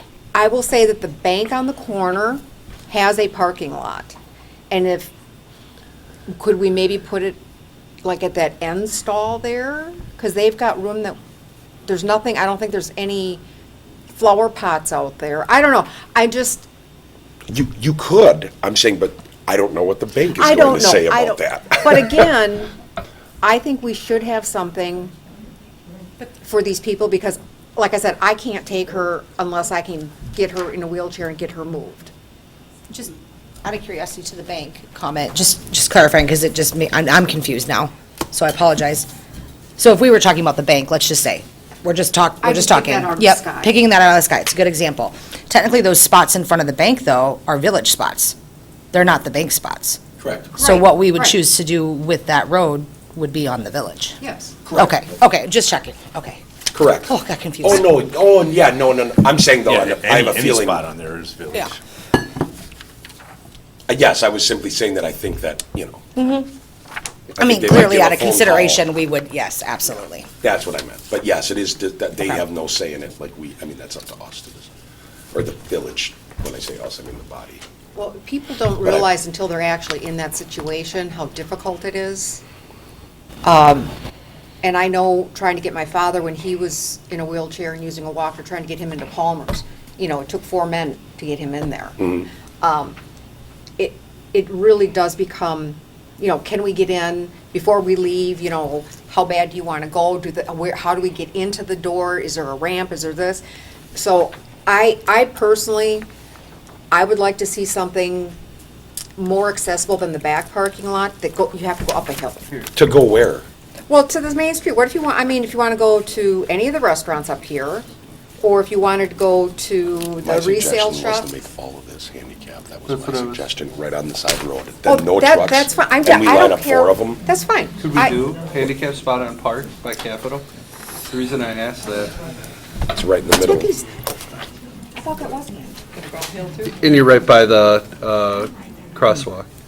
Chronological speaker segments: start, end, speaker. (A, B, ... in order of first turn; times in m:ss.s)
0:00.3-0:04.2 A
0:04.7-0:05.1 A
0:06.3-0:07.4 A
0:08.0-0:11.2 A
0:11.8-0:13.4 A
0:14.1-0:16.7 A
0:17.5-0:22.0 B
0:20.4-0:22.7 A
0:23.4-0:25.1 A
0:26.2-0:32.1 A
0:33.6-0:39.1 C
0:39.8-0:48.4 C
0:42.4-0:43.8 A
0:48.9-0:50.0 C
0:50.2-0:50.6 B
0:50.6-0:51.4 A
0:50.6-0:54.2 C
0:54.2-0:54.6 A
0:54.6-0:55.0 B
0:54.7-0:56.4 C
0:56.7-1:00.9 B
0:57.0-0:58.0 C
0:59.6-1:01.8 D
1:03.9-1:06.0 B
1:06.2-1:06.5 C
1:07.4-1:08.9 B
1:07.4-1:10.3 C
1:10.4-1:14.7 B
1:15.3-1:17.6 B
1:17.9-1:22.4 A
1:23.4-1:23.9 A
1:24.6-1:33.0 A
1:33.8-1:43.4 A
1:43.9-1:46.1 A
1:46.9-1:48.4 A
1:49.2-1:52.5 A
1:52.7-1:53.4 B
1:53.9-1:57.8 A
1:58.4-2:01.3 A
2:00.2-2:07.2 B
2:02.9-2:03.4 E
2:04.8-2:08.2 A
2:07.8-2:10.4 E
2:11.1-2:12.2 E
2:12.9-2:13.7 B
2:13.4-2:13.9 A
2:15.0-2:16.7 A
2:16.7-2:19.5 E